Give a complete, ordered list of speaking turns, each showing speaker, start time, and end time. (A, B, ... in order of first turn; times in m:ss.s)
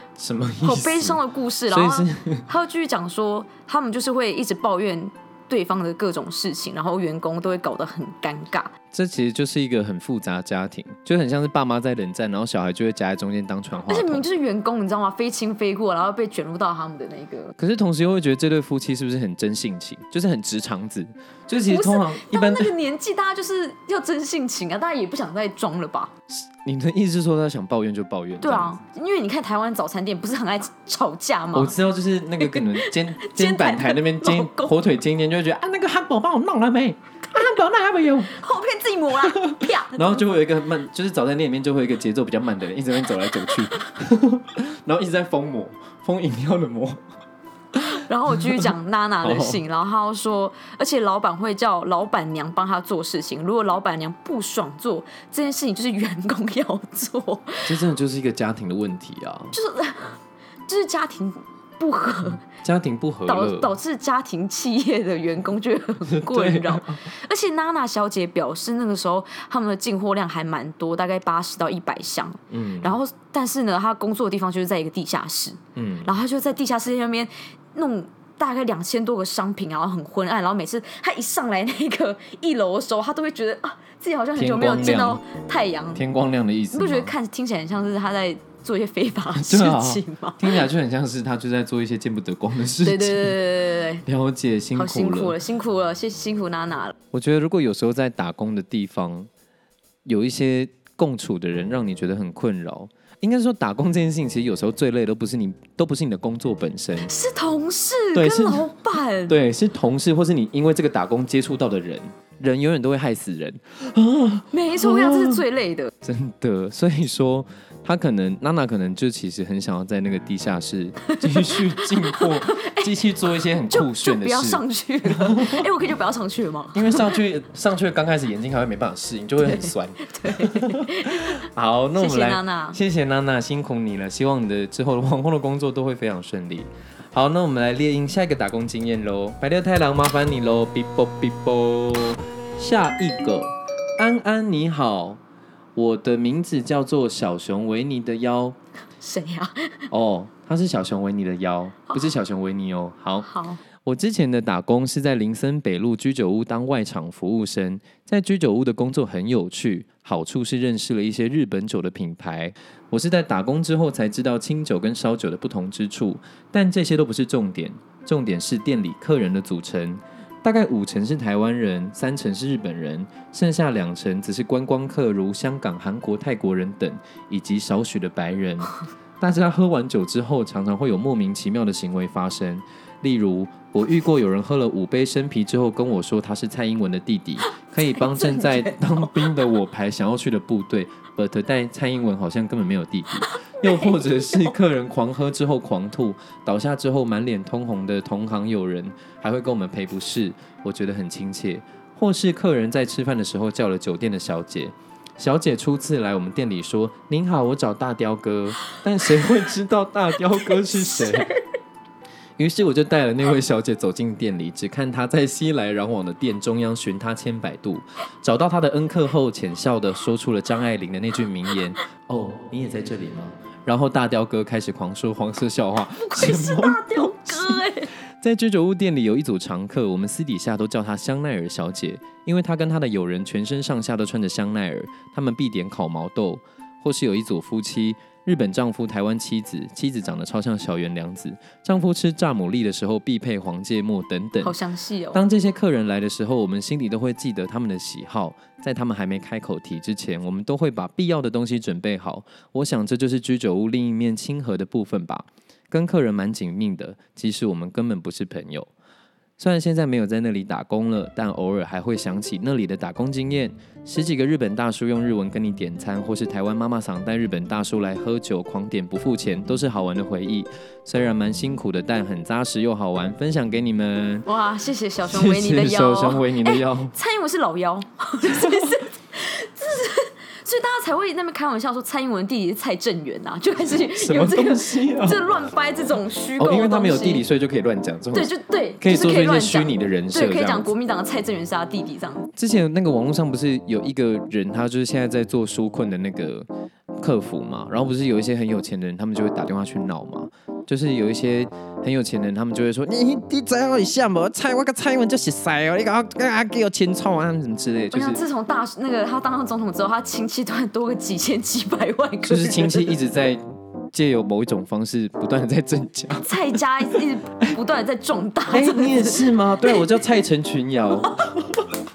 0:00.2-0:02.5 A
0:00.6-0:08.7 B
0:08.9-0:14.2 A
0:13.9-0:17.6 B
0:17.6-0:22.7 A
0:21.7-0:26.1 B
0:26.3-0:28.8 A
0:28.4-0:31.8 B
0:31.5-0:38.4 A
0:32.4-0:34.7 B
0:38.3-0:40.2 B
0:39.3-0:47.0 A
0:47.8-0:48.7 A
0:47.9-0:57.7 B
0:49.2-0:49.6 A
0:57.7-0:59.6 A
0:59.5-1:02.4 B
1:02.5-1:03.7 A
1:03.3-1:26.0 B
1:06.1-1:07.1 A
1:12.5-1:13.0 A
1:15.8-1:16.1 A
1:24.4-1:25.2 A
1:25.9-1:27.1 A
1:26.7-1:30.6 B
1:29.4-1:33.4 A
1:32.8-1:34.0 B
1:34.0-1:35.4 A
1:34.8-1:36.9 B
1:37.1-1:39.3 A
1:40.0-1:47.1 A
1:47.0-1:49.4 B
1:48.2-1:48.7 A
1:49.3-1:55.4 A
1:54.5-1:55.9 B
1:56.0-2:05.7 A
2:01.1-2:02.9 B
2:03.7-2:07.2 B
2:06.7-2:25.2 A
2:09.4-2:11.4 B
2:12.0-2:12.8 B
2:25.8-2:28.6 A
2:29.0-2:29.9 B
2:29.9-2:33.3 A
2:33.2-2:33.6 B
2:33.8-3:31.3 A
3:08.2-3:08.7 B
3:30.8-3:31.4 B
3:32.4-4:04.6 A
3:46.0-3:47.9 B
4:04.4-4:05.2 B
4:05.1-4:18.7 A
4:19.4-4:34.3 A
4:34.3-4:47.2 B
4:35.1-4:36.9 A
4:38.3-4:38.8 A
4:43.9-4:45.2 A
4:46.4-4:50.7 A
4:48.1-4:52.3 B
4:52.4-5:08.2 A
5:07.9-5:13.0 B
5:12.3-5:16.6 A
5:16.2-5:19.2 B
5:18.5-5:21.7 A